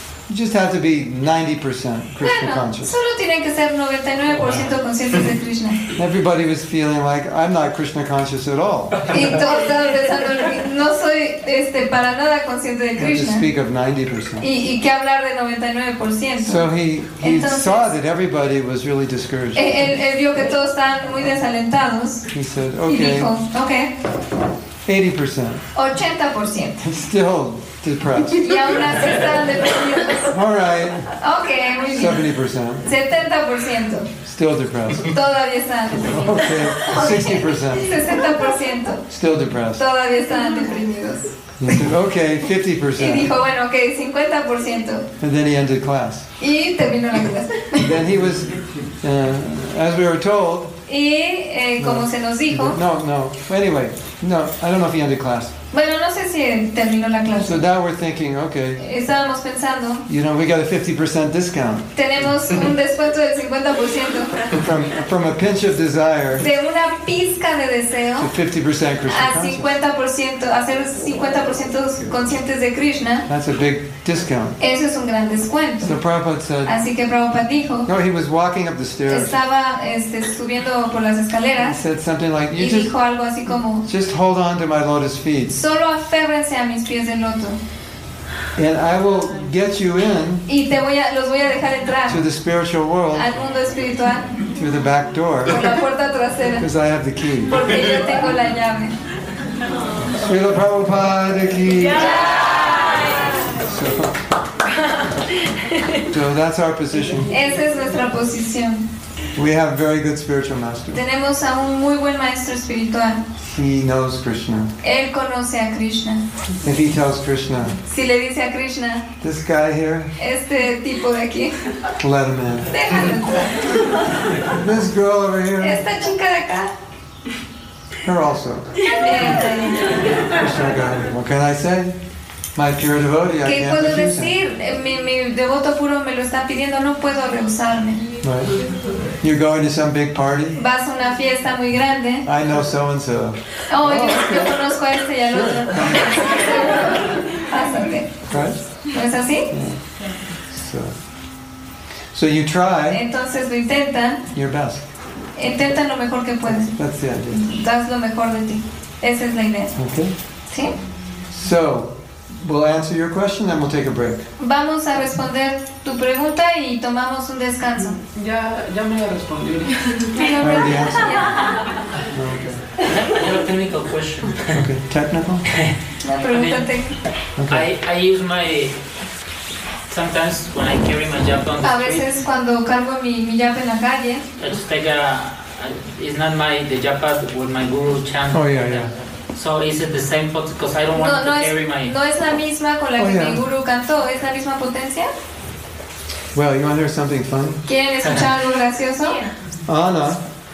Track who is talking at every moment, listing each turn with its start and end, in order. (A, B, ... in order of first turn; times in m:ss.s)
0:00.3-0:03.0 A
0:02.2-0:05.8 B
0:06.0-0:09.3 A
0:09.1-0:13.4 B
0:13.0-0:14.5 A
0:14.4-0:17.9 B
0:16.4-0:19.8 A
0:19.6-0:22.3 B
0:22.3-0:23.3 A
0:22.9-0:23.9 B
0:24.8-0:25.6 A
0:25.8-0:26.8 B
0:26.8-0:29.0 A
0:28.4-0:30.4 B
0:30.3-0:31.2 A
0:31.2-0:32.3 B
0:31.9-0:32.9 A
0:32.8-0:34.1 B
0:34.2-0:35.2 A
0:35.1-0:39.0 B
0:36.0-0:38.0 A
0:39.1-0:39.8 A
0:39.8-0:41.8 B
0:41.6-0:43.3 A
0:43.0-0:45.1 B
0:45.2-0:46.3 A
0:46.4-0:47.9 B
0:47.7-0:50.8 A
0:50.9-0:52.8 B
0:51.8-0:55.5 A
0:55.7-0:57.6 B
0:57.4-0:58.9 A
0:58.8-1:00.0 B
1:00.1-1:01.9 A
1:02.0-1:04.4 B
1:04.5-1:06.5 A
1:06.4-1:08.3 B
1:08.2-1:09.7 A
1:09.1-1:13.3 B
1:13.3-1:14.6 A
1:14.6-1:16.0 B
1:15.8-1:16.8 A
1:16.6-1:17.9 B
1:17.9-1:19.4 A
1:19.1-1:21.8 B
1:21.6-1:22.9 A
1:22.6-1:23.9 B
1:23.8-1:25.6 A
1:25.5-1:27.6 B
1:28.6-1:30.5 A
1:30.5-1:32.2 B
1:32.1-1:33.3 A
1:33.1-1:34.3 B
1:34.5-1:35.7 A
1:35.5-1:36.7 B
1:36.6-1:37.6 A
1:37.5-1:39.0 B
1:40.0-1:42.5 A
1:42.0-1:43.4 B
1:43.4-1:44.2 A
1:46.0-1:47.3 A
1:47.3-1:48.9 B
1:49.3-1:51.0 A
1:50.9-1:53.2 B
1:53.4-1:54.7 A
1:54.8-1:56.2 B
1:56.6-1:57.8 A
1:57.9-1:59.0 B
1:59.2-2:00.1 A
2:00.2-2:01.6 B
2:02.0-2:02.9 A
2:02.7-2:03.8 B
2:04.4-2:05.8 A
2:05.6-2:06.7 B
2:08.0-2:08.8 A
2:08.9-2:10.2 B
2:10.1-2:12.0 A
2:12.6-2:14.3 A
2:13.4-2:18.0 B
2:18.2-2:18.6 A
2:19.2-2:20.6 A
2:20.6-2:22.3 B
2:22.2-2:24.6 A
2:23.7-2:28.2 B
2:25.3-2:26.4 A
2:28.3-2:28.6 A
2:28.9-2:29.5 B
2:29.5-2:29.8 A
2:30.5-2:31.0 A
2:32.1-2:33.0 A
2:32.9-2:34.2 B
2:34.3-2:34.8 A
2:35.4-2:36.8 B
2:36.5-2:37.4 A
2:37.3-2:39.8 B
2:39.8-2:40.1 A
2:41.3-2:44.3 A
2:44.4-2:48.0 B
2:48.2-2:50.3 C
2:50.2-2:51.4 B
2:50.4-2:51.4 A
2:52.1-2:52.6 A
2:52.8-2:54.6 D
2:54.5-2:55.5 A
2:56.0-2:57.0 B
2:56.3-2:56.7 D
2:57.4-2:57.7 A
2:57.5-2:58.8 D
2:59.9-3:02.1 D
3:01.6-3:04.2 B
3:04.4-3:11.9 D
3:08.3-3:08.9 A
3:11.0-3:15.1 B
3:13.0-3:13.4 A
3:16.3-3:17.6 A
3:17.7-3:19.2 B
3:18.0-3:18.3 D
3:19.6-3:20.2 A